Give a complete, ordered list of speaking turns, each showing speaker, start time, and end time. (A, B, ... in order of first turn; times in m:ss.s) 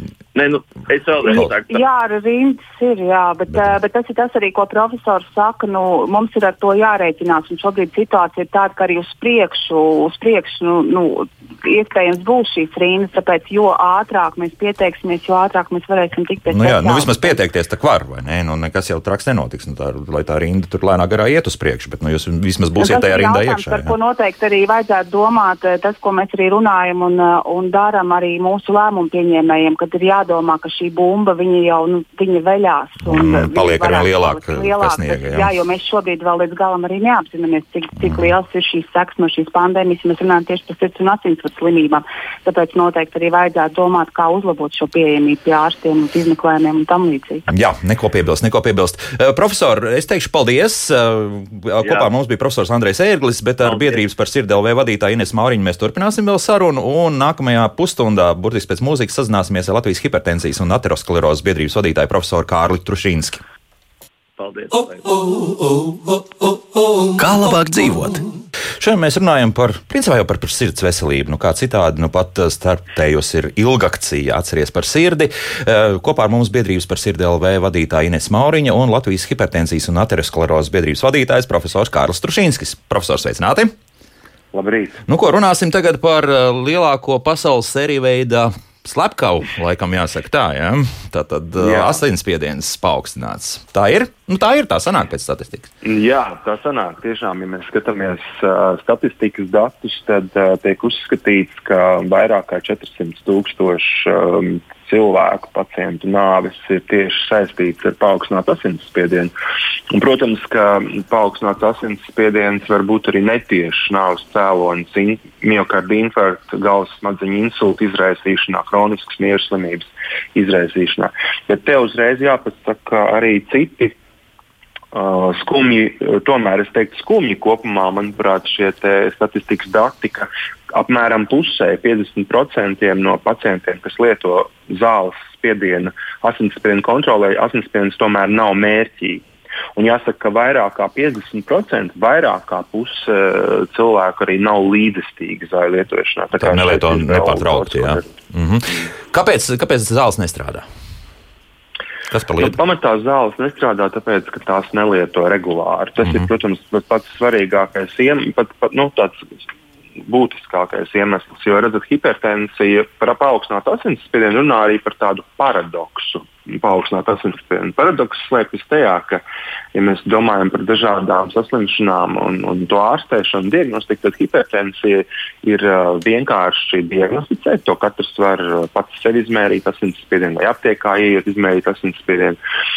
0:00.4-0:01.8 A
0:01.3-0:17.4 B
0:16.5-0:23.9 C
0:22.8-0:47.5 B
0:33.0-0:35.5 C
0:47.5-1:03.4 C
0:51.8-0:52.1 A
0:53.6-0:54.0 A
1:04.4-1:05.4 A
1:07.2-1:08.2 C
1:08.8-1:23.7 C
1:24.5-1:25.0 D
1:25.1-1:35.7 C
1:31.6-1:32.0 D
1:35.8-1:49.3 D
1:49.9-2:04.0 D
2:04.9-2:19.2 D
2:19.8-2:28.1 D
2:26.4-2:30.7 C
2:32.1-2:32.6 C
2:32.4-2:39.2 D
2:40.0-2:49.2 D
2:49.7-3:02.4 D